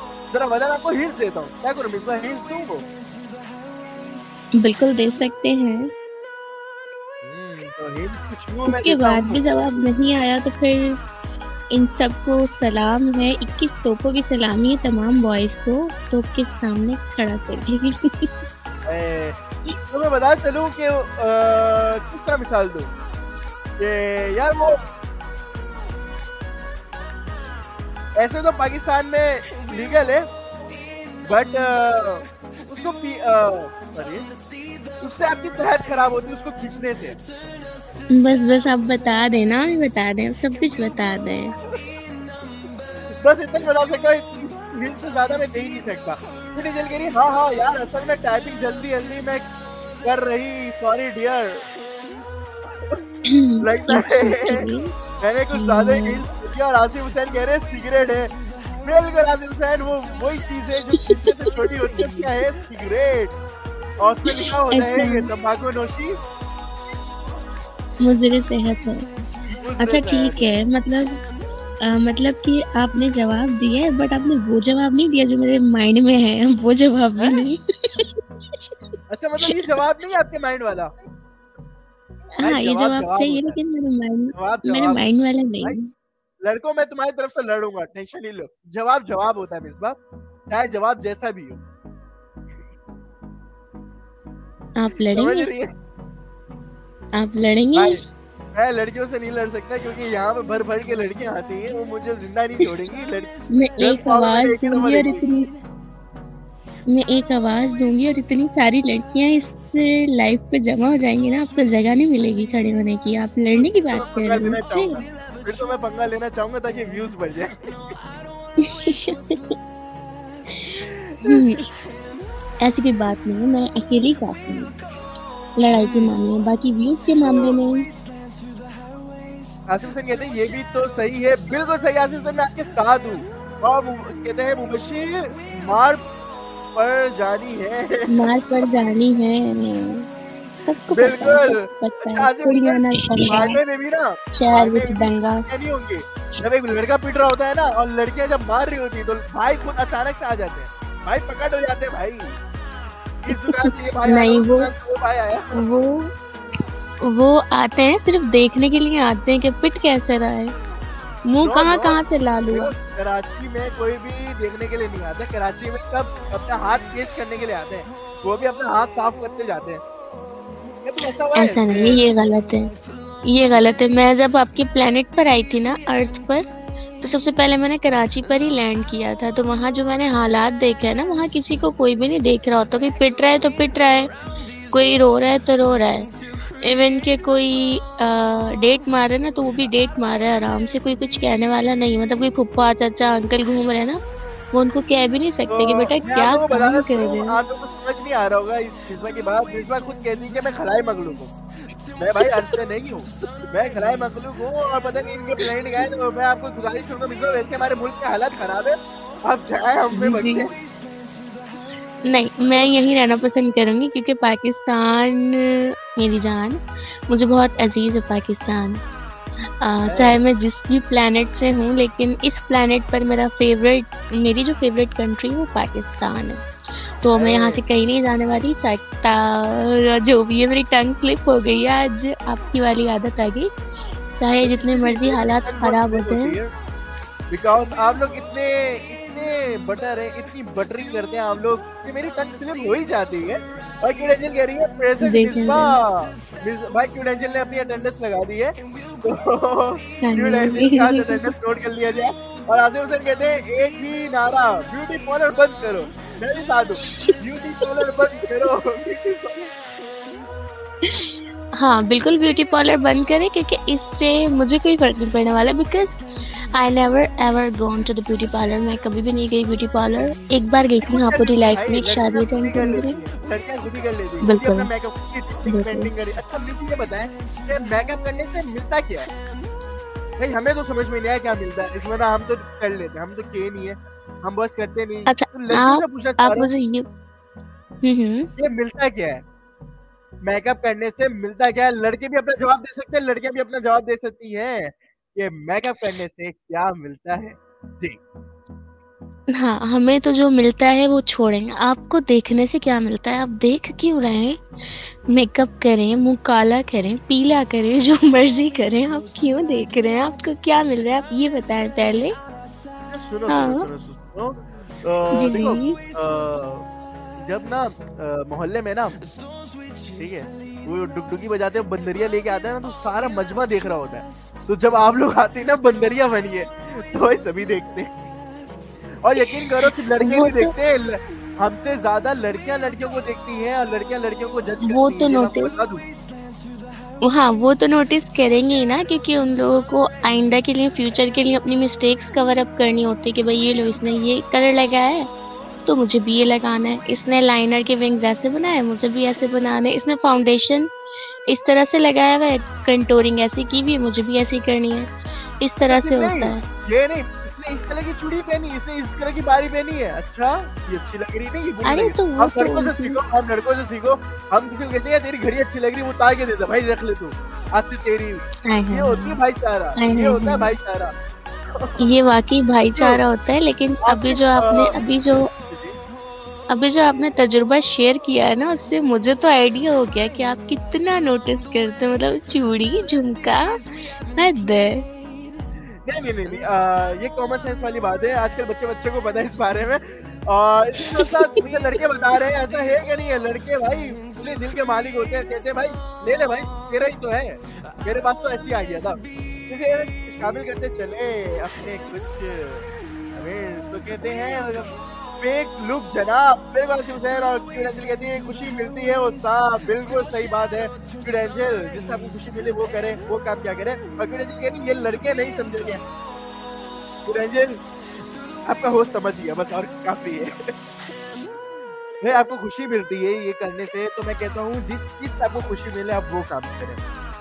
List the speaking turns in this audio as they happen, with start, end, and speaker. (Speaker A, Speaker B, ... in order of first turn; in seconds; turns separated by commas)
Speaker A: 0.3-2.9, Speaker B: 4.6-5.9, Speaker A: 7.2-9.4, Speaker B: 8.7-11.0, Speaker B: 11.7-18.3, Speaker A: 18.9-19.4, Speaker A: 19.9-22.9, Speaker A: 23.8-24.9, Speaker A: 28.2-30.3, Speaker A: 31.3-34.3, Speaker A: 35.0-37.2, Speaker B: 38.1-41.5, Speaker A: 41.7-41.9, Speaker A: 43.1-49.5, Speaker A: 50.0-51.7, Speaker A: 52.7-53.0, Speaker B: 53.3-54.9, Speaker A: 53.6-54.7, Speaker A: 55.2-63.4, Speaker B: 55.5-56.2, Speaker A: 64.0-66.2, Speaker B: 64.3-65.3, Speaker B: 68.0-69.1, Speaker A: 69.6-70.5, Speaker B: 69.8-71.2, Speaker B: 71.8-78.6, Speaker A: 79.1-80.9, Speaker B: 79.4-79.7, Speaker B: 82.4-85.9, Speaker A: 82.4-83.6, Speaker A: 84.3-85.0, Speaker A: 86.4-90.0, Speaker A: 90.5-91.6, Speaker B: 94.8-95.5, Speaker A: 95.1-95.7, Speaker B: 97.2-98.0, Speaker A: 97.8-98.0, Speaker A: 98.5-105.2, Speaker B: 103.5-105.5, Speaker B: 106.9-115.0, Speaker A: 113.5-118.0, Speaker B: 118.6-119.5, Speaker B: 120.5-121.7, Speaker A: 121.1-121.6, Speaker B: 122.6-124.8, Speaker B: 125.6-127.9, Speaker A: 125.7-126.2, Speaker A: 127.2-127.6, Speaker A: 129.7-136.0, Speaker A: 136.8-138.3, Speaker B: 138.1-140.1, Speaker B: 140.6-143.6, Speaker A: 140.9-152.4, Speaker B: 144.3-145.4, Speaker A: 153.2-155.6, Speaker B: 153.3-154.7, Speaker B: 155.5-156.1, Speaker B: 157.0-160.5, Speaker B: 161.3-162.7, Speaker A: 161.4-162.0, Speaker A: 162.5-169.8, Speaker A: 170.8-172.0, Speaker B: 171.4-172.7, Speaker B: 173.3-176.5, Speaker B: 177.0-184.1, Speaker B: 184.7-194.0, Speaker B: 194.5-197.4, Speaker A: 195.5-201.3, Speaker A: 202.0-210.5, Speaker B: 202.2-202.6, Speaker B: 209.9-210.5, Speaker B: 212.1-218.8, Speaker B: 219.6-226.5, Speaker A: 219.8-220.2, Speaker B: 227.0-233.6, Speaker A: 227.2-227.6, Speaker B: 234.1-236.4, Speaker A: 234.4-236.5, Speaker A: 237.3-259.5, Speaker B: 245.0-245.8, Speaker B: 250.0-251.2, Speaker B: 256.8-258.3, Speaker B: 260.8-273.0, Speaker A: 270.8-279.1, Speaker B: 274.2-274.7, Speaker B: 275.5-275.9, Speaker A: 280.2-286.5, Speaker B: 285.1-286.9, Speaker B: 287.8-288.3, Speaker A: 288.4-289.2, Speaker A: 290.2-298.0, Speaker B: 299.3-312.1, Speaker A: 312.9-316.7, Speaker B: 313.3-313.7, Speaker B: 315.2-315.8, Speaker A: 317.2-319.0, Speaker A: 319.9-328.0, Speaker A: 329.0-335.8, Speaker B: 329.2-330.5, Speaker B: 334.6-335.5, Speaker B: 337.1-345.1, Speaker B: 345.7-350.7, Speaker B: 351.3-356.4, Speaker A: 355.7-370.9, Speaker B: 361.6-363.0, Speaker B: 368.5-369.2, Speaker B: 369.8-370.5, Speaker A: 371.5-371.9, Speaker B: 371.8-375.3, Speaker A: 372.8-373.0, Speaker A: 373.9-374.8, Speaker A: 375.5-375.8, Speaker B: 376.5-384.8, Speaker A: 385.6-415.8, Speaker A: 417.1-417.6, Speaker A: 418.5-420.5, Speaker A: 422.0-426.8